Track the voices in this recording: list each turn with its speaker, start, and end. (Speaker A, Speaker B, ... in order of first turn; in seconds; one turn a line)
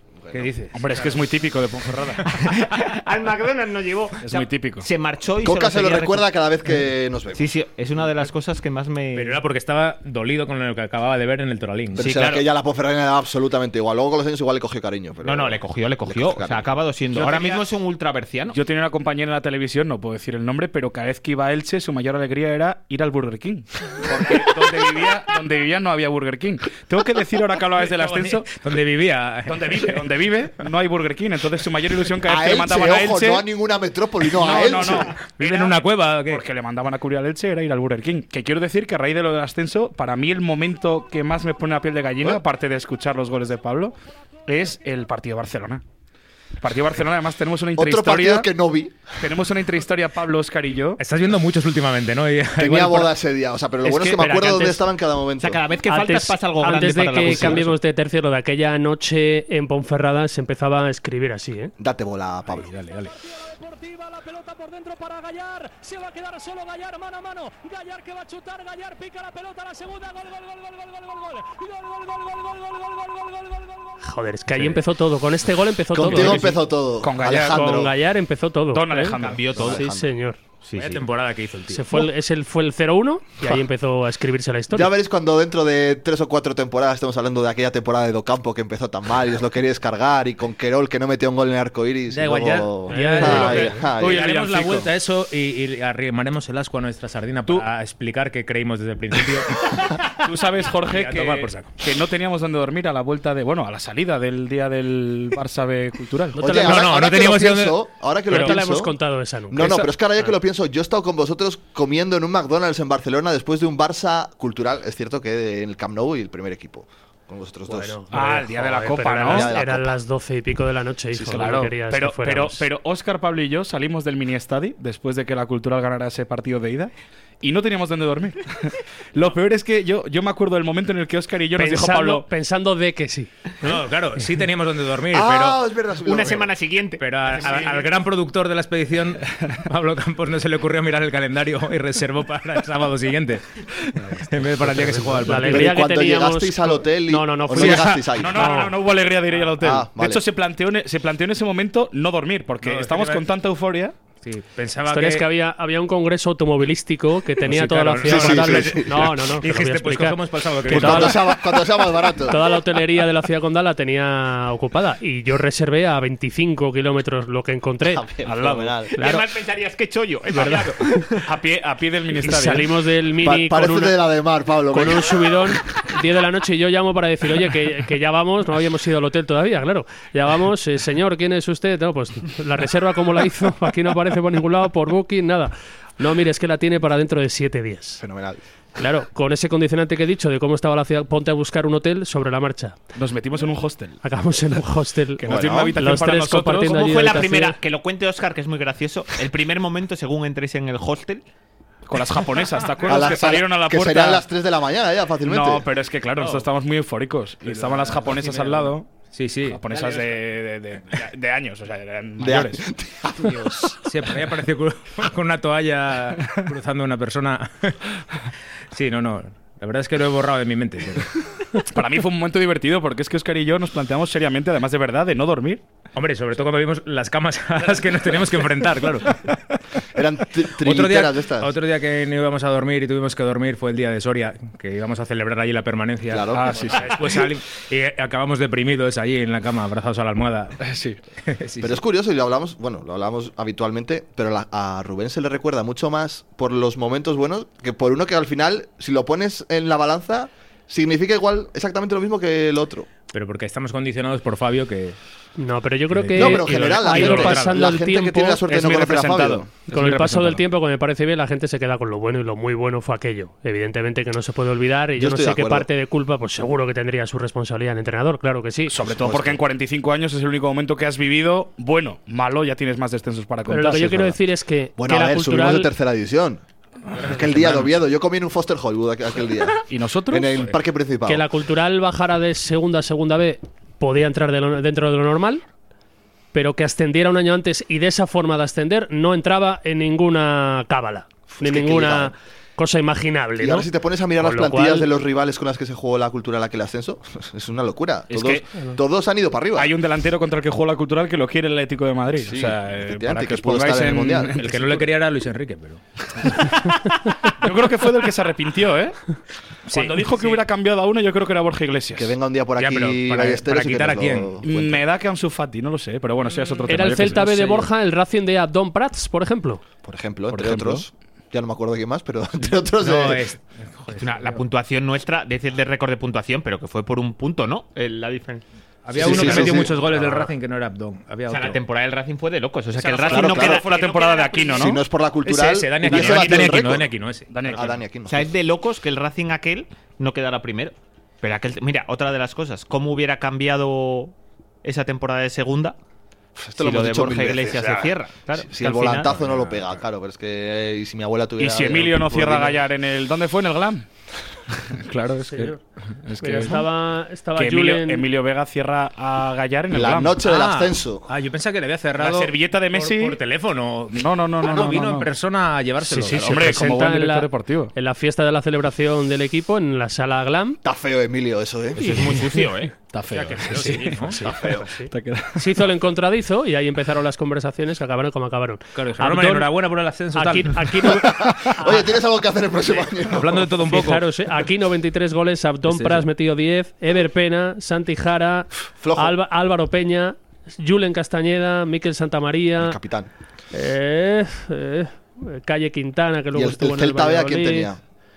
Speaker A: 0.3-1.3
Speaker B: 0.7-2.4
Speaker C: 2.3-6.3
Speaker B: 4.2-4.9
Speaker D: 5.4-7.5
Speaker C: 7.3-9.4
Speaker A: 9.1-12.2
Speaker D: 12.0-16.7
Speaker C: 12.0-12.4
Speaker C: 15.2-18.6
Speaker B: 17.1-17.6
Speaker B: 18.5-28.6
Speaker D: 24.1-24.4
Speaker A: 27.8-30.3
Speaker B: 29.5-33.4
Speaker D: 32.3-35.1
Speaker B: 34.4-44.0
Speaker A: 35.4-36.4
Speaker B: 44.5-45.8
Speaker B: 46.6-48.5
Speaker D: 47.8-49.0
Speaker B: 49.2-51.0
Speaker A: 51.0-53.1
Speaker D: 52.6-55.6
Speaker B: 53.9-54.6
Speaker C: 55.4-57.7
Speaker E: 55.8-61.7
Speaker D: 57.2-57.6
Speaker D: 61.8-62.7
Speaker A: 62.6-63.1
Speaker E: 63.8-70.3
Speaker E: 71.4-72.2
Speaker E: 74.0-76.6
Speaker D: 75.9-77.9
Speaker B: 76.1-76.5
Speaker B: 77.0-77.7
Speaker E: 77.5-80.4
Speaker B: 78.7-79.7
Speaker C: 79.0-79.9
Speaker D: 79.5-80.1
Speaker C: 80.7-81.0
Speaker A: 80.7-82.1
Speaker E: 81.7-84.9
Speaker D: 84.7-94.2
Speaker A: 92.1-100.0
Speaker E: 92.9-93.8
Speaker B: 92.9-94.9
Speaker B: 100.2-106.4
Speaker A: 100.8-101.8
Speaker E: 106.3-106.8
Speaker D: 106.4-109.0
Speaker A: 106.5-107.8
Speaker E: 108.2-109.9
Speaker D: 109.5-118.0
Speaker E: 117.7-122.7
Speaker B: 118.1-119.5
Speaker D: 119.3-119.9
Speaker B: 121.2-132.3
Speaker E: 131.6-133.3
Speaker A: 133.6-135.6
Speaker D: 135.1-136.5
Speaker C: 136.0-137.8
Speaker A: 137.0-143.4
Speaker A: 144.0-145.9
Speaker E: 145.2-148.8
Speaker D: 145.4-148.4
Speaker A: 147.5-148.0
Speaker B: 147.6-153.9
Speaker D: 149.6-150.2
Speaker A: 152.6-153.2
Speaker A: 154.2-155.3
Speaker E: 154.9-161.4
Speaker A: 157.4-161.2
Speaker D: 158.0-159.3
Speaker D: 160.7-162.6
Speaker E: 162.2-168.1
Speaker D: 167.9-168.9
Speaker B: 168.2-168.8
Speaker E: 168.9-169.2
Speaker C: 169.0-171.3
Speaker E: 170.3-171.0
Speaker B: 171.2-172.8
Speaker E: 172.2-173.9
Speaker D: 173.2-175.3
Speaker E: 174.7-188.0
Speaker D: 188.0-188.4
Speaker E: 188.8-192.8
Speaker B: 192.9-194.0
Speaker E: 194.0-197.6
Speaker B: 195.2-197.0
Speaker D: 195.2-195.7
Speaker C: 196.6-201.2
Speaker B: 201.9-204.2
Speaker D: 202.8-205.7
Speaker B: 205.2-208.9
Speaker A: 206.2-206.4
Speaker A: 207.4-210.0
Speaker B: 209.4-212.7
Speaker D: 212.2-213.5
Speaker A: 213.2-217.8
Speaker A: 218.7-221.4
Speaker B: 221.7-225.6
Speaker A: 225.9-229.5
Speaker D: 229.9-231.5
Speaker A: 230.6-240.5
Speaker D: 236.1-236.8
Speaker B: 236.3-237.3
Speaker B: 240.6-241.0
Speaker A: 241.2-241.8
Speaker D: 241.6-252.9
Speaker A: 253.1-255.0
Speaker E: 255.4-258.4
Speaker A: 255.9-257.8
Speaker D: 256.1-259.5
Speaker B: 258.4-260.4
Speaker E: 259.7-268.7
Speaker D: 265.0-265.7
Speaker B: 268.7-274.2
Speaker D: 268.9-269.4
Speaker E: 273.5-275.7
Speaker D: 274.8-276.4
Speaker B: 276.9-277.6
Speaker A: 276.9-277.8
Speaker D: 277.1-281.2
Speaker B: 279.7-280.3
Speaker E: 281.1-285.4
Speaker E: 286.3-293.7
Speaker D: 291.3-292.1
Speaker D: 293.4-299.7
Speaker E: 294.2-294.9
Speaker B: 298.1-298.4
Speaker B: 299.6-304.9
Speaker D: 302.2-304.4
Speaker A: 304.3-305.8
Speaker B: 307.4-309.0
Speaker A: 309.7-310.4
Speaker B: 309.7-312.1
Speaker D: 311.9-314.8
Speaker A: 312.6-314.4
Speaker B: 314.4-317.7
Speaker A: 316.5-316.8
Speaker E: 316.7-319.6
Speaker D: 319.8-323.2
Speaker B: 320.3-320.8
Speaker A: 322.8-324.4
Speaker C: 323.9-328.4
Speaker A: 328.8-331.6
Speaker D: 328.9-329.8
Speaker C: 329.0-329.6
Speaker B: 329.2-330.1
Speaker C: 331.3-334.8
Speaker B: 332.8-334.8
Speaker D: 333.0-333.6
Speaker D: 334.6-336.9
Speaker A: 335.2-337.6
Speaker B: 335.9-336.7
Speaker B: 337.3-337.8
Speaker D: 337.5-338.3
Speaker C: 338.1-344.1
Speaker C: 344.6-345.8
Speaker D: 346.4-352.6
Speaker C: 346.6-349.1
Speaker A: 349.1-349.8
Speaker B: 351.4-353.9
Speaker B: 354.6-356.6
Speaker E: 355.3-355.6
Speaker E: 356.2-358.1
Speaker B: 357.3-360.2
Speaker D: 359.7-361.1
Speaker A: 360.2-366.6
Speaker B: 361.9-363.2
Speaker B: 363.9-365.1
Speaker E: 365.9-370.6
Speaker B: 366.0-367.7
Speaker D: 370.6-372.1
Speaker C: 371.8-372.7
Speaker E: 371.8-372.2
Speaker B: 372.9-375.6
Speaker A: 373.1-374.6
Speaker E: 374.1-379.6
Speaker A: 378.7-380.9
Speaker E: 380.1-381.9
Speaker D: 380.9-383.5
Speaker A: 383.0-384.1
Speaker E: 383.7-392.8
Speaker A: 385.7-386.1
Speaker D: 388.8-389.1
Speaker D: 392.6-393.1
Speaker E: 393.5-397.7
Speaker D: 396.3-397.8